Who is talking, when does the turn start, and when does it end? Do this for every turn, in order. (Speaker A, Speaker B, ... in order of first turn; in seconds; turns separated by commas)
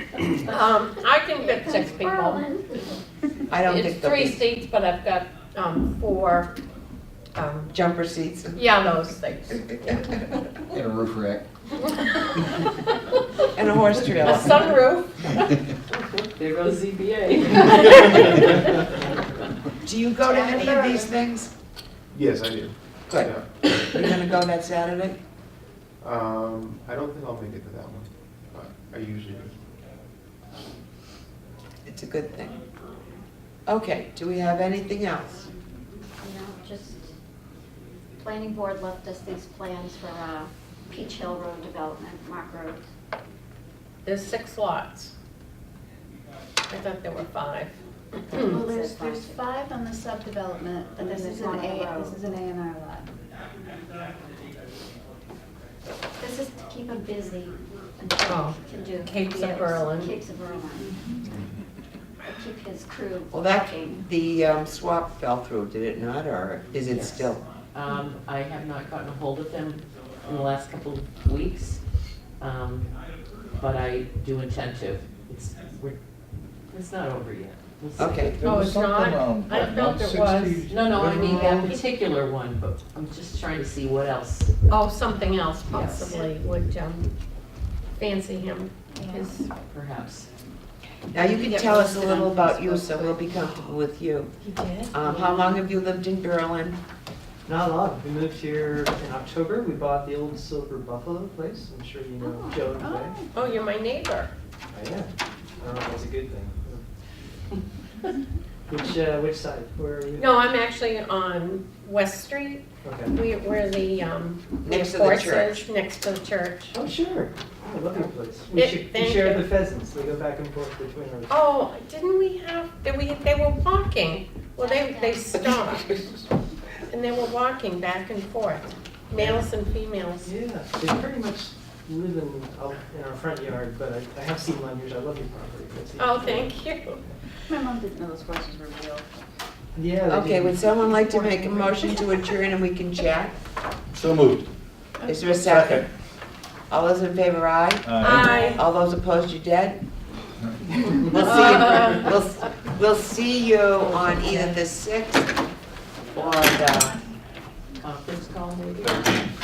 Speaker A: 0.5-2.6, Speaker B: 1.4-2.9, Speaker C: 3.5-4.4, Speaker A: 3.6-6.5, Speaker A: 7.3-7.7, Speaker C: 7.7-8.7, Speaker A: 8.5-10.4, Speaker A: 11.8-12.3, Speaker C: 13.5-14.7, Speaker A: 14.2-15.3, Speaker D: 15.9-18.9, Speaker C: 19.8-21.5, Speaker B: 20.3-21.0, Speaker E: 22.1-23.5, Speaker C: 23.8-25.2, Speaker E: 26.0-29.6, Speaker C: 31.9-32.6, Speaker C: 33.7-35.5, Speaker B: 36.2-37.1, Speaker B: 38.2-42.9, Speaker A: 44.0-45.1, Speaker A: 46.7-47.7, Speaker A: 48.3-48.6, Speaker B: 48.3-49.3, Speaker F: 48.5-53.1, Speaker B: 51.0-52.2, Speaker B: 56.2-60.9, Speaker A: 58.2-60.1, Speaker B: 62.2-64.0, Speaker C: 63.3-67.4, Speaker D: 66.9-72.9, Speaker D: 73.5-76.0, Speaker D: 76.7-78.3, Speaker C: 78.0-78.4, Speaker G: 78.3-80.6, Speaker A: 78.4-80.7, Speaker H: 79.8-81.7, Speaker D: 80.7-84.5, Speaker A: 84.7-87.1, Speaker D: 85.7-86.2, Speaker A: 88.0-89.5, Speaker D: 89.6-90.3, Speaker C: 91.1-94.3, Speaker B: 91.4-91.8, Speaker B: 92.7-93.1, Speaker A: 94.4-94.9, Speaker C: 94.9-96.8, Speaker H: 97.5-103.2, Speaker F: 102.2-103.3, Speaker A: 103.3-104.3, Speaker H: 104.7-106.8, Speaker H: 108.7-110.5, Speaker A: 110.2-116.7, Speaker H: 112.8-113.2, Speaker C: 114.6-115.7, Speaker H: 116.7-121.4, Speaker A: 118.5-119.5, Speaker A: 121.3-125.9, Speaker B: 124.6-125.2, Speaker A: 126.9-130.3, Speaker H: 129.1-129.4, Speaker H: 130.2-136.6, Speaker A: 136.0-137.0, Speaker F: 137.5-139.2, Speaker H: 139.8-141.9, Speaker C: 140.1-143.3, Speaker G: 144.0-144.4, Speaker F: 145.0-145.3, Speaker C: 145.0-145.8, Speaker G: 145.5-145.8, Speaker C: 146.7-149.8, Speaker G: 147.8-148.2, Speaker A: 148.0-148.6, Speaker C: 150.9-155.4, Speaker A: 151.2-152.1, Speaker D: 153.8-154.6, Speaker C: 156.1-157.0, Speaker D: 157.8-159.1